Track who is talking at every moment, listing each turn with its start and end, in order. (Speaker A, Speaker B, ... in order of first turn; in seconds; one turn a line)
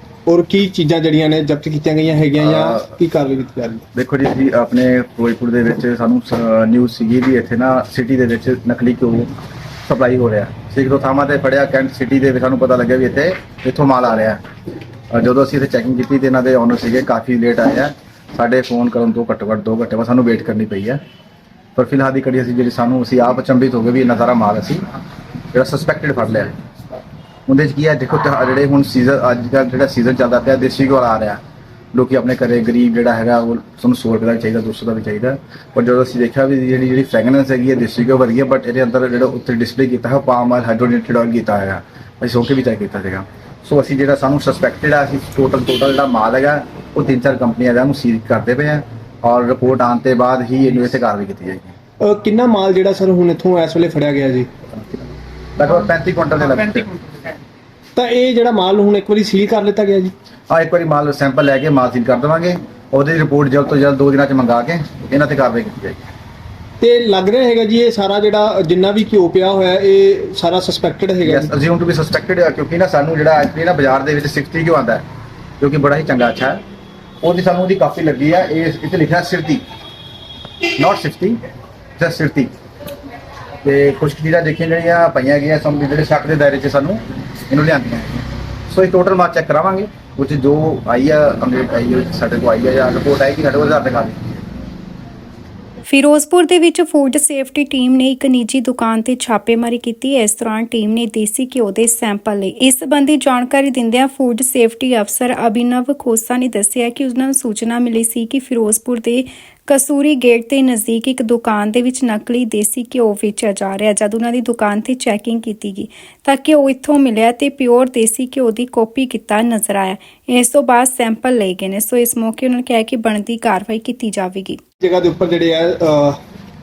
Speaker A: 0.3-3.8
Speaker B: 2.4-2.9
Speaker B: 3.9-9.3
Speaker B: 9.8-14.4
Speaker B: 15.1-21.0
Speaker B: 21.8-24.8
Speaker B: 25.5-26.5
Speaker B: 27.5-31.4
Speaker B: 31.9-51.7
Speaker A: 52.0-54.5
Speaker B: 55.5-57.1
Speaker A: 58.0-60.1
Speaker B: 60.5-66.0
Speaker A: 66.8-71.5
Speaker B: 71.2-75.0
Speaker B: 75.6-76.6
Speaker B: 77.2-79.6
Speaker B: 80.6-81.4
Speaker B: 82.0-82.5
Speaker B: 83.6-94.3
Speaker C: 95.9-124.6
Speaker A: 124.8-126.2